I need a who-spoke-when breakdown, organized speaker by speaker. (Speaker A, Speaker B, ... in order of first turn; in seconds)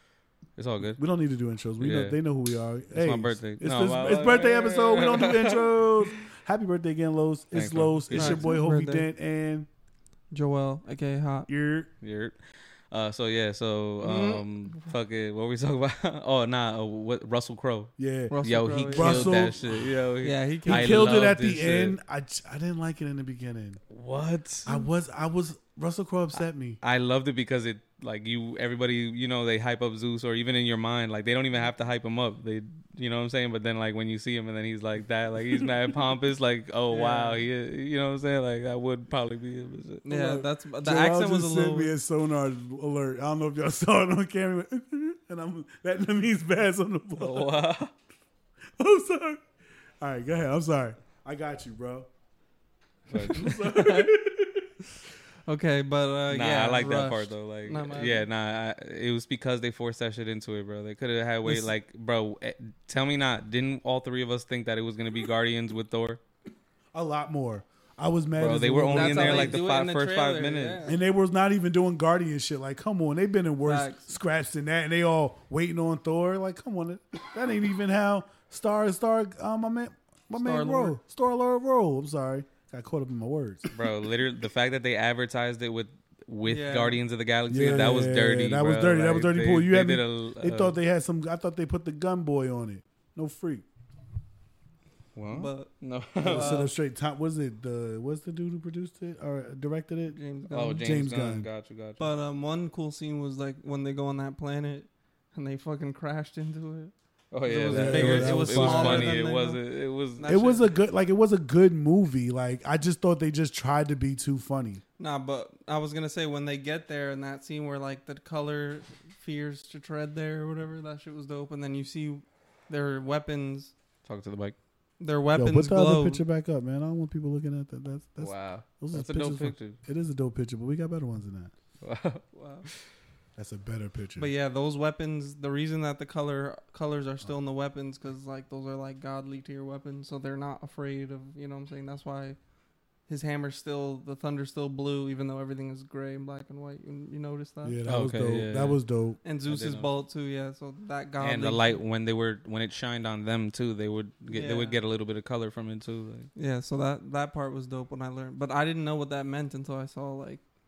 Speaker A: 0.6-1.0, 1.8-2.2, 2.9-6.1, 7.5-8.5, 12.0-22.0, 23.9-24.8, 26.8-40.1, 47.2-47.9, 53.1-54.1, 56.3-66.2, 68.4-70.8, 83.7-90.8, 95.2-96.7, 100.5-102.0, 107.3-110.3, 124.0-124.6, 128.2-129.8, 131.8-132.8, 147.9-148.8, 149.5-149.9, 151.2-156.3
Speaker B: 1.0-9.7, 11.5-11.9, 18.0-18.3, 18.9-19.9, 20.7-23.8, 24.7-26.8, 40.1-47.5, 48.8-49.4, 50.0-52.1, 53.1-54.7, 66.9-69.6, 70.9-83.7, 87.5-93.7, 96.2-100.2, 100.8-101.5, 107.7-109.2, 110.2-114.8, 125.4-131.5, 133.4-134.3, 147.6-149.2
Speaker C: 8.1-9.1, 10.3-11.5, 14.0-14.9, 18.3-19.4, 20.2-21.1, 36.9-37.4, 40.0-42.0, 55.5-58.2, 68.9-71.0, 73.6-74.1, 80.3-81.0, 86.5-87.0, 95.3-95.7, 96.2-96.7, 100.1-100.8, 102.0-109.6, 110.2-110.7, 115.0-123.7, 125.0-126.2, 132.3-132.7, 134.2-142.4, 143.1-147.8, 149.2-151.8, 154.3-154.8, 156.3-160.4